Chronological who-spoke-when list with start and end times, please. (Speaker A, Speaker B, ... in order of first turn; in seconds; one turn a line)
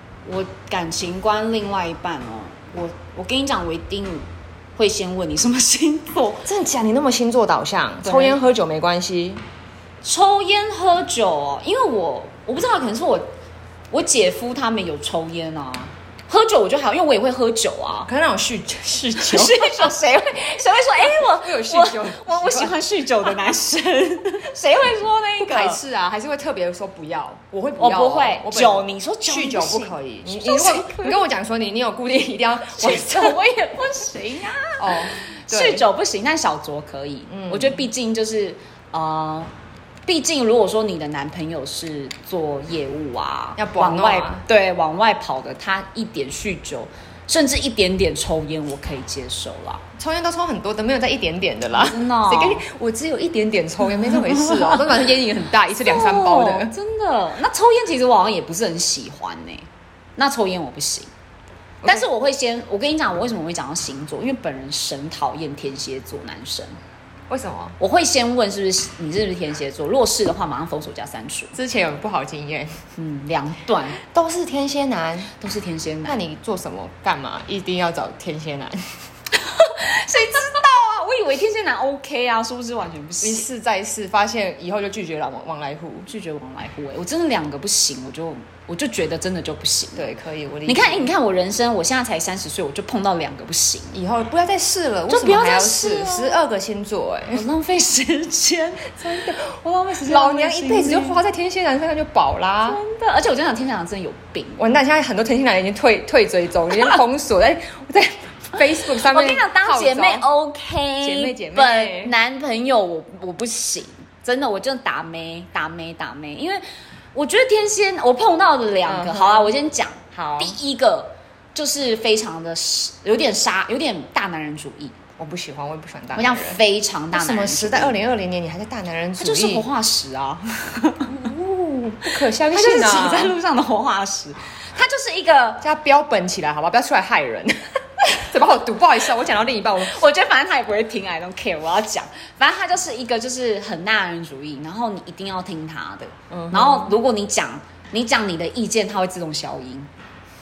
Speaker A: 0.2-6.5
Speaker B: 6.5-9.4
Speaker A: 8.0-8.4
Speaker A: 10.0-13.3
Speaker A: 13.9-18.1
Speaker B: 18.1-19.9
Speaker A: 19.2-25.8
Speaker B: 20.8-22.8
Speaker B: 25.4-33.4
Speaker A: 27.8-31.2
Speaker A: 32.8-39.5
Speaker B: 34.8-35.9
Speaker B: 37.3-37.9
Speaker A: 40.0-49.8
Speaker B: 43.6-44.4
Speaker B: 50.0-56.7
Speaker A: 51.7-52.6
Speaker A: 54.0-55.1
Speaker A: 55.7-61.1
Speaker A: 61.8-66.8
Speaker B: 67.3-67.8
Speaker A: 67.8-71.5
Speaker B: 71.5-72.8
Speaker A: 73.0-74.0
Speaker B: 74.0-75.3
Speaker A: 75.3-76.2
Speaker B: 76.0-78.8
Speaker A: 79.3-83.5
Speaker B: 83.2-86.1
Speaker A: 86.0-90.1
Speaker B: 90.0-91.1
Speaker A: 90.7-94.0
Speaker B: 93.9-97.4
Speaker A: 95.1-96.4
Speaker A: 97.3-101.2
Speaker B: 100.0-102.8
Speaker A: 102.6-104.7
Speaker B: 104.6-110.3
Speaker A: 108.8-124.9
Speaker B: 111.0-112.1
Speaker B: 118.8-119.5
Speaker B: 120.1-120.6
Speaker B: 125.2-126.6
Speaker A: 126.1-128.0
Speaker B: 127.1-129.7
Speaker A: 129.2-131.2
Speaker B: 131.1-133.3
Speaker A: 132.1-135.6
Speaker B: 135.6-140.0
Speaker A: 139.8-149.9
Speaker B: 146.3-147.0